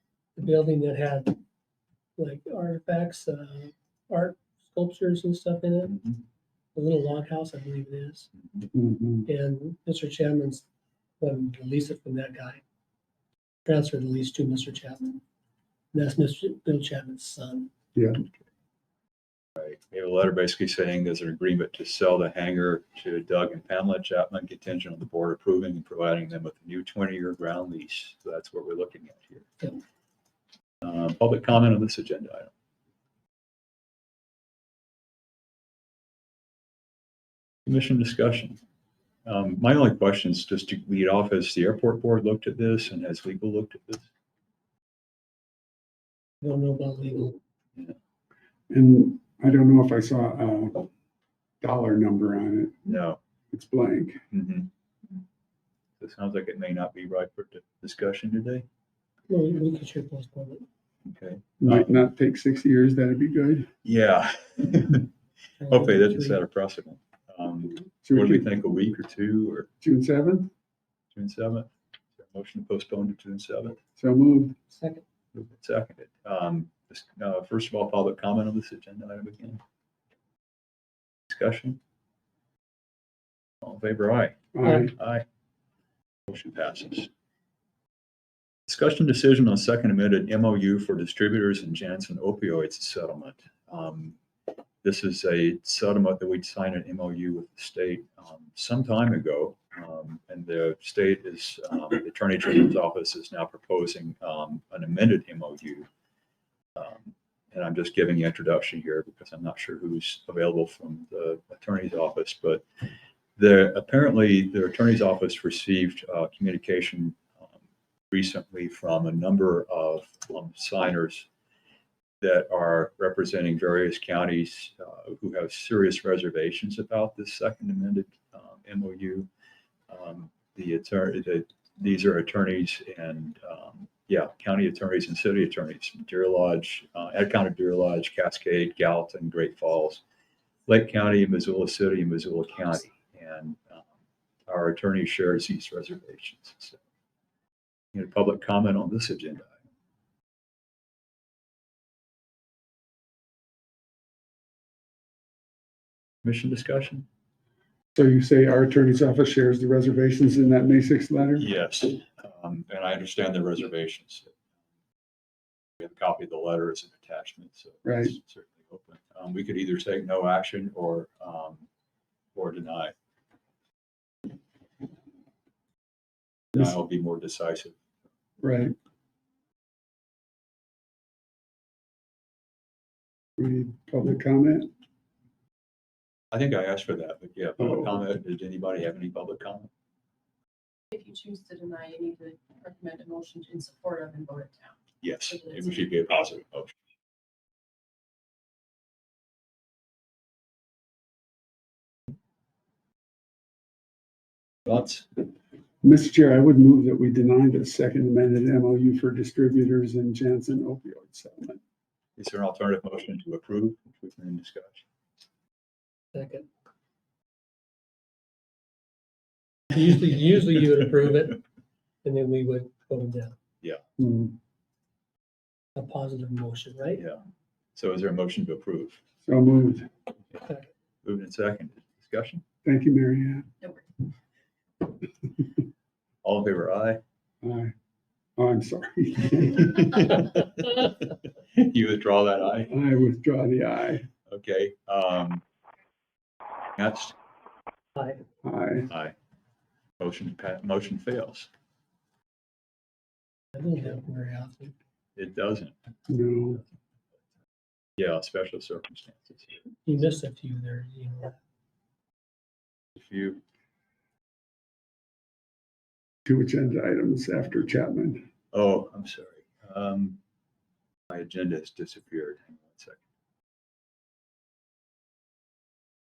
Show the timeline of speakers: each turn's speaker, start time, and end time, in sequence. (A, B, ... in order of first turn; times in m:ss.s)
0:00.4-0:01.4 A
0:02.2-0:06.0 A
0:05.9-0:06.2 B
0:06.8-0:08.3 A
0:08.7-0:09.3 C
0:09.3-0:10.6 A
0:11.2-0:12.6 A
0:13.7-0:15.2 A
0:15.9-0:17.7 A
0:18.0-0:18.2 C
0:19.6-0:29.5 B
0:30.8-0:32.5 B
0:37.7-0:38.6 B
0:39.3-0:44.1 B
0:46.4-0:47.4 A
0:48.7-0:50.9 C
0:51.6-0:52.8 C
0:52.8-0:53.2 B
0:53.5-0:54.2 C
0:54.3-0:54.7 B
0:56.0-0:58.6 B
0:59.3-1:00.6 A
1:01.1-1:02.0 B
1:01.6-1:03.7 C
1:03.8-1:05.1 B
1:05.6-1:06.4 A
1:05.7-1:09.7 B
1:08.0-1:08.5 C
1:09.8-1:10.5 C
1:11.1-1:13.8 B
1:14.0-1:14.6 C
1:14.7-1:15.0 A
1:15.3-1:19.6 B
1:21.3-1:21.8 B
1:23.6-1:25.2 B
1:24.6-1:24.9 C
1:24.6-1:24.9 A
1:26.3-1:27.1 B
1:28.7-1:34.2 B
1:34.8-1:45.9 B
1:46.8-1:52.6 B
1:53.4-1:57.2 B
1:58.1-2:01.3 B
2:02.2-2:09.3 B
2:09.9-2:20.0 B
2:20.7-2:23.8 B
2:24.5-2:26.8 B
2:27.9-2:29.5 B
2:36.2-2:37.1 B
2:38.0-2:41.5 C
2:41.4-2:44.3 B
2:45.8-2:51.6 B
2:47.8-2:48.2 C
2:52.4-2:52.9 B
2:56.5-2:57.8 B
2:58.4-2:58.8 C
3:03.4-3:04.7 C
3:06.3-3:09.7 B
3:10.9-3:15.8 D
3:15.0-3:16.8 B
3:24.7-3:25.2 B
3:25.8-3:31.6 C
3:32.2-3:34.8 B
3:36.1-3:36.5 A
3:39.7-3:41.4 A
3:42.0-3:43.4 A
3:44.0-3:44.4 C
3:45.8-3:47.0 A
3:47.0-3:47.2 B
3:47.8-3:49.0 B
3:49.2-3:49.9 C
3:50.4-3:50.7 A
3:51.0-3:52.4 B
3:52.6-3:53.5 C
3:56.2-3:57.0 B
3:57.4-3:57.7 C
3:58.4-4:00.1 C
4:00.0-4:01.0 B
4:01.5-4:02.7 B
4:02.7-4:04.1 C
4:04.3-4:05.4 B
4:06.8-4:07.2 B
4:08.0-4:08.2 A
4:08.4-4:08.9 C
4:08.9-4:09.2 B
4:10.0-4:11.5 B
4:13.6-4:14.7 A
4:15.2-4:15.7 B
4:16.1-4:16.6 C
4:18.0-4:19.6 B
4:19.9-4:21.4 A
4:23.0-4:23.4 B
4:26.3-4:28.2 C
4:28.5-4:30.2 B
4:31.1-4:33.0 B